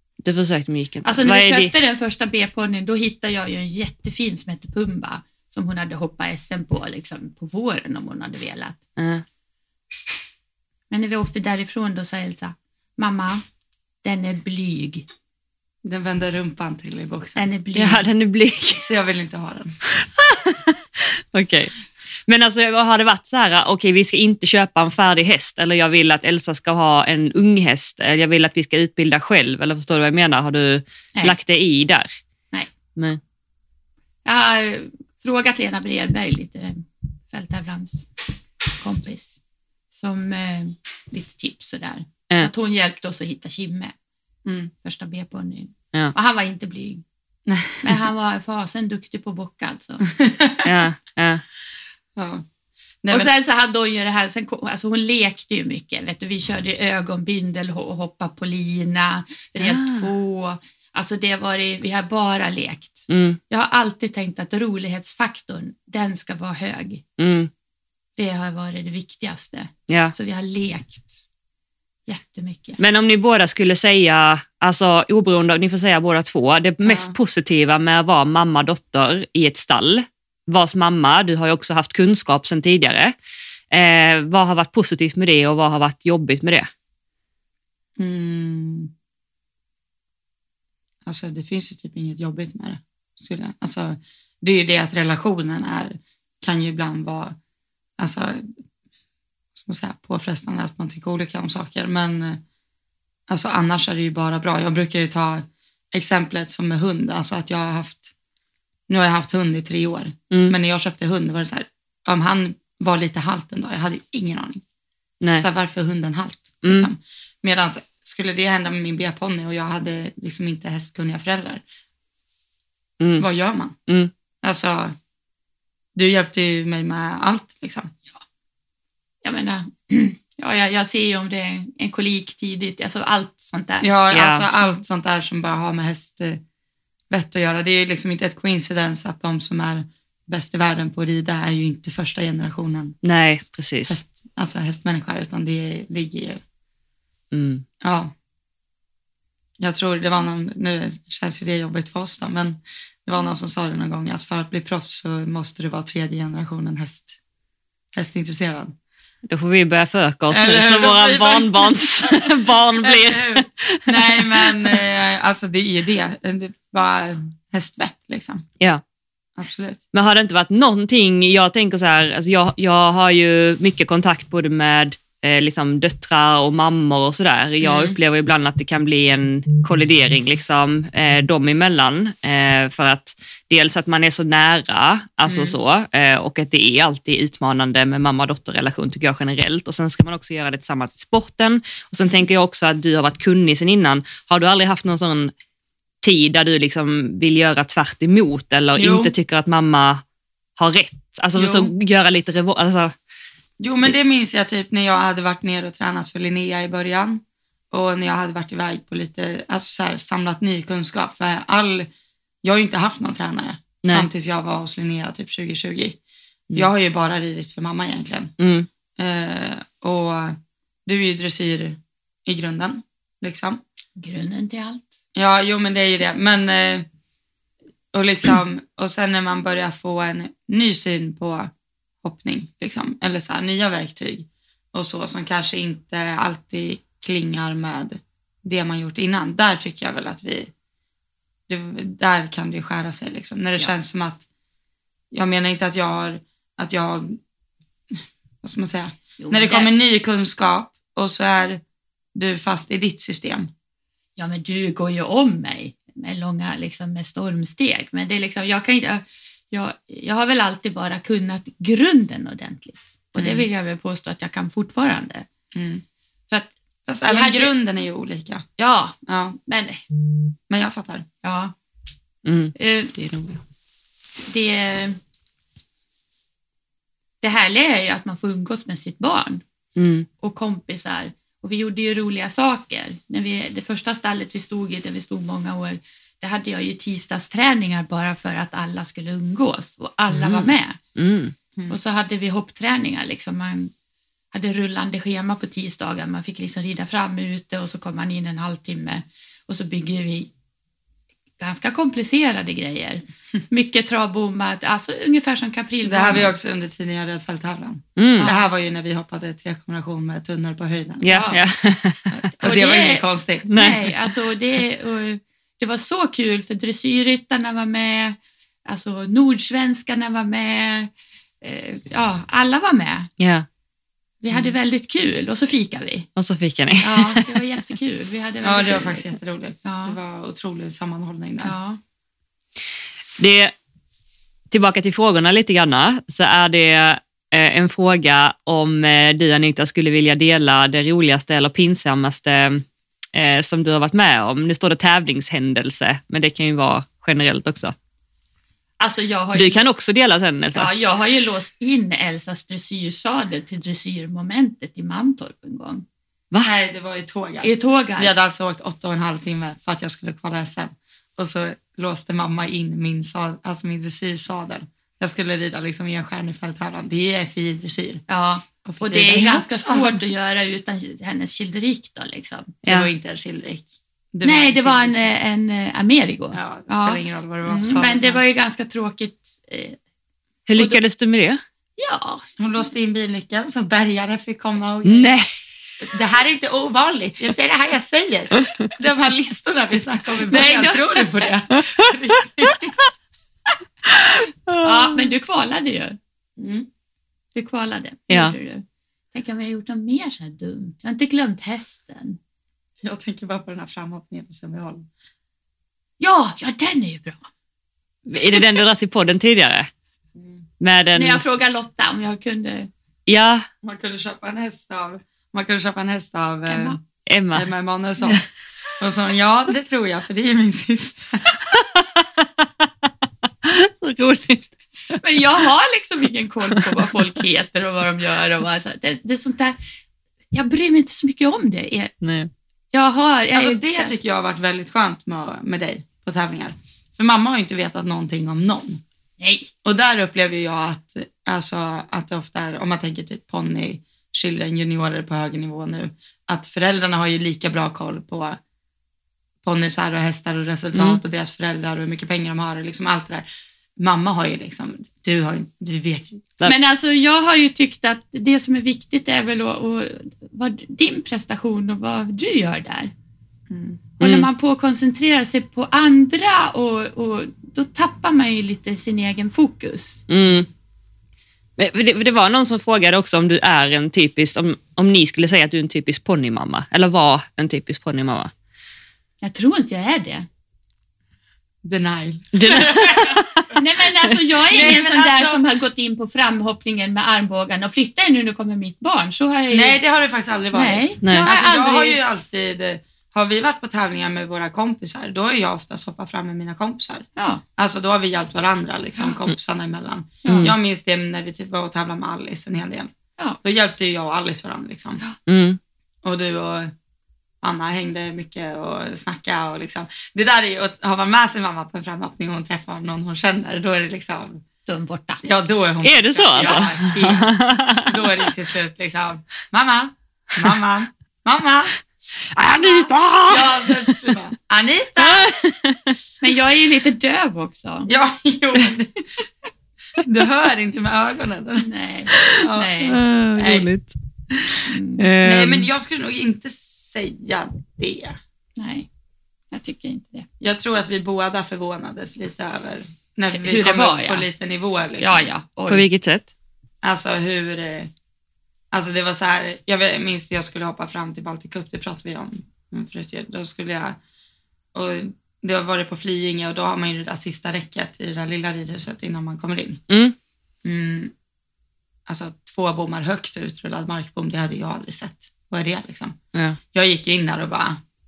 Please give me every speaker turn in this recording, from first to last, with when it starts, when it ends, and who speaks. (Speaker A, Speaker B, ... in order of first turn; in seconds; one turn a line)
Speaker A: 0.2-1.7
Speaker B: 1.0-8.8
Speaker A: 9.0-9.2
Speaker B: 10.9-13.4
Speaker B: 14.0-15.1
Speaker C: 15.8-17.4
Speaker B: 17.4-18.1
Speaker A: 17.7-18.9
Speaker C: 18.8-19.7
Speaker A: 19.9-21.7
Speaker A: 22.2-32.1
Speaker B: 34.2-38.1
Speaker B: 38.8-39.4
Speaker B: 39.9-43.9
Speaker C: 44.4-44.7
Speaker B: 44.8-47.0
Speaker C: 47.5-47.9
Speaker B: 47.8-50.0
Speaker C: 50.1-50.7
Speaker A: 50.6-51.4
Speaker C: 52.1-52.4
Speaker C: 53.0-53.3
Speaker B: 53.1-67.0
Speaker A: 59.5-60.1
Speaker A: 63.1-63.4
Speaker A: 67.2-67.5
Speaker B: 68.2-71.2
Speaker A: 69.9-70.1
Speaker B: 72.1-72.8
Speaker A: 72.8-83.1
Speaker C: 76.8-77.1
Speaker A: 83.7-86.7
Speaker C: 88.0-88.9
Speaker C: 91.0-97.3
Speaker C: 98.0-98.5
Speaker C: 99.5-102.4
Speaker C: 103.3-108.1
Speaker C: 108.9-114.6
Speaker A: 110.3-110.5
Speaker C: 115.4-121.6
Speaker A: 123.0-123.3
Speaker C: 123.2-123.8
Speaker A: 123.9-124.1
Speaker C: 124.4-125.0
Speaker C: 125.9-127.9
Speaker B: 129.2-133.9
Speaker C: 133.8-136.4
Speaker A: 134.1-134.5
Speaker C: 137.1-143.0
Speaker A: 143.0-144.0
Speaker C: 143.9-146.4
Speaker A: 147.3-147.6
Speaker C: 147.8-148.1
Speaker C: 149.6-157.2
Speaker C: 157.9-158.7
Speaker A: 159.3-164.8
Speaker C: 160.3-168.4
Speaker C: 169.4-169.8
Speaker A: 169.9-195.3
Speaker C: 177.6-177.9
Speaker C: 185.2-185.6
Speaker A: 196.0-200.0
Speaker C: 198.8-199.1
Speaker A: 200.6-202.9
Speaker C: 201.3-201.7
Speaker C: 203.6-211.9
Speaker C: 212.4-216.0
Speaker A: 213.8-214.1
Speaker C: 216.5-218.3
Speaker A: 218.4-218.7
Speaker C: 219.0-223.6
Speaker B: 223.9-224.9
Speaker C: 225.1-226.9
Speaker C: 227.9-231.5
Speaker C: 232.0-240.5
Speaker C: 241.5-244.2
Speaker C: 245.1-247.2
Speaker C: 248.4-251.6
Speaker B: 249.2-249.7
Speaker C: 252.1-253.5
Speaker B: 254.2-265.3
Speaker C: 263.1-263.4
Speaker C: 265.5-265.8
Speaker C: 266.9-268.4
Speaker B: 267.1-267.5
Speaker B: 268.6-269.8
Speaker C: 269.1-269.4
Speaker C: 270.5-271.1
Speaker B: 271.2-271.5
Speaker A: 272.2-273.4
Speaker B: 272.6-272.9
Speaker B: 274.2-275.0
Speaker B: 277.2-279.4
Speaker A: 279.8-280.1
Speaker B: 280.2-290.8
Speaker A: 290.1-291.3
Speaker B: 291.7-293.7
Speaker B: 294.3-300.3
Speaker B: 301.4-306.3
Speaker C: 305.8-311.3
Speaker A: 308.0-308.3
Speaker B: 308.1-308.5
Speaker A: 311.0-312.3
Speaker B: 311.1-311.4
Speaker C: 312.3-313.7
Speaker B: 312.4-323.1
Speaker A: 313.5-313.9
Speaker A: 323.2-323.4
Speaker B: 324.2-326.1
Speaker C: 324.3-324.5
Speaker A: 326.1-327.4
Speaker B: 326.8-330.0
Speaker C: 328.4-331.5
Speaker B: 331.4-331.8
Speaker A: 333.2-333.5
Speaker A: 334.5-347.7
Speaker B: 348.8-349.7
Speaker A: 349.3-350.7
Speaker B: 350.5-355.8
Speaker C: 356.4-368.0
Speaker B: 357.4-358.1
Speaker B: 368.1-372.6
Speaker C: 368.6-370.0
Speaker A: 372.6-372.9
Speaker C: 372.6-375.1
Speaker B: 374.2-379.8
Speaker C: 376.3-378.2
Speaker A: 380.5-381.4
Speaker B: 381.8-382.3
Speaker C: 382.4-385.1
Speaker A: 384.8-385.3
Speaker C: 385.8-392.8
Speaker B: 390.3-391.3
Speaker A: 393.9-395.1
Speaker B: 394.6-396.0
Speaker C: 396.4-396.7
Speaker B: 397.3-402.2
Speaker A: 398.1-398.3
Speaker C: 402.8-404.9
Speaker B: 406.0-407.3
Speaker A: 408.1-409.7
Speaker C: 410.1-410.4
Speaker A: 410.6-411.2
Speaker B: 410.9-412.7
Speaker A: 413.1-413.5
Speaker C: 413.6-416.8
Speaker B: 416.5-416.8
Speaker A: 417.1-417.5
Speaker C: 417.3-418.2
Speaker C: 418.8-421.5
Speaker A: 421.5-422.6
Speaker A: 423.4-424.5
Speaker B: 425.0-429.6
Speaker B: 430.3-431.9
Speaker A: 432.0-432.3
Speaker B: 432.7-433.9
Speaker C: 433.3-438.8
Speaker B: 439.2-439.5
Speaker C: 439.6-448.4
Speaker C: 449.4-456.3
Speaker A: 450.7-451.0
Speaker B: 456.4-462.9
Speaker C: 463.5-463.9
Speaker A: 464.0-464.3
Speaker B: 464.0-470.1
Speaker A: 470.1-470.5
Speaker A: 471.6-478.3
Speaker B: 479.2-480.3
Speaker C: 481.6-483.5
Speaker A: 482.3-483.4
Speaker B: 483.5-489.8
Speaker C: 484.5-485.4
Speaker C: 489.5-502.9
Speaker B: 490.5-492.0
Speaker B: 497.1-497.4
Speaker B: 500.2-500.5
Speaker A: 500.3-500.5
Speaker C: 503.4-505.0
Speaker A: 505.2-505.6
Speaker C: 506.0-506.7
Speaker C: 507.4-514.4
Speaker B: 514.7-515.2
Speaker C: 515.2-521.8
Speaker A: 515.8-518.3
Speaker B: 516.4-516.7
Speaker C: 522.4-525.3
Speaker A: 522.4-523.9
Speaker A: 525.0-526.0
Speaker B: 526.2-527.9
Speaker C: 527.9-529.0
Speaker C: 530.0-531.7
Speaker B: 531.6-533.0
Speaker A: 532.1-533.9
Speaker C: 532.4-533.7
Speaker A: 534.5-535.7
Speaker B: 534.6-535.1
Speaker C: 535.2-538.2
Speaker B: 538.6-538.9
Speaker B: 539.5-540.3
Speaker C: 540.4-545.3
Speaker B: 543.3-544.2
Speaker B: 545.0-545.9
Speaker A: 545.7-546.3
Speaker C: 546.8-547.9
Speaker C: 548.7-554.0
Speaker C: 554.7-559.8
Speaker A: 559.9-560.1
Speaker C: 560.6-561.1
Speaker C: 562.1-566.2
Speaker A: 566.3-566.6
Speaker C: 566.7-567.8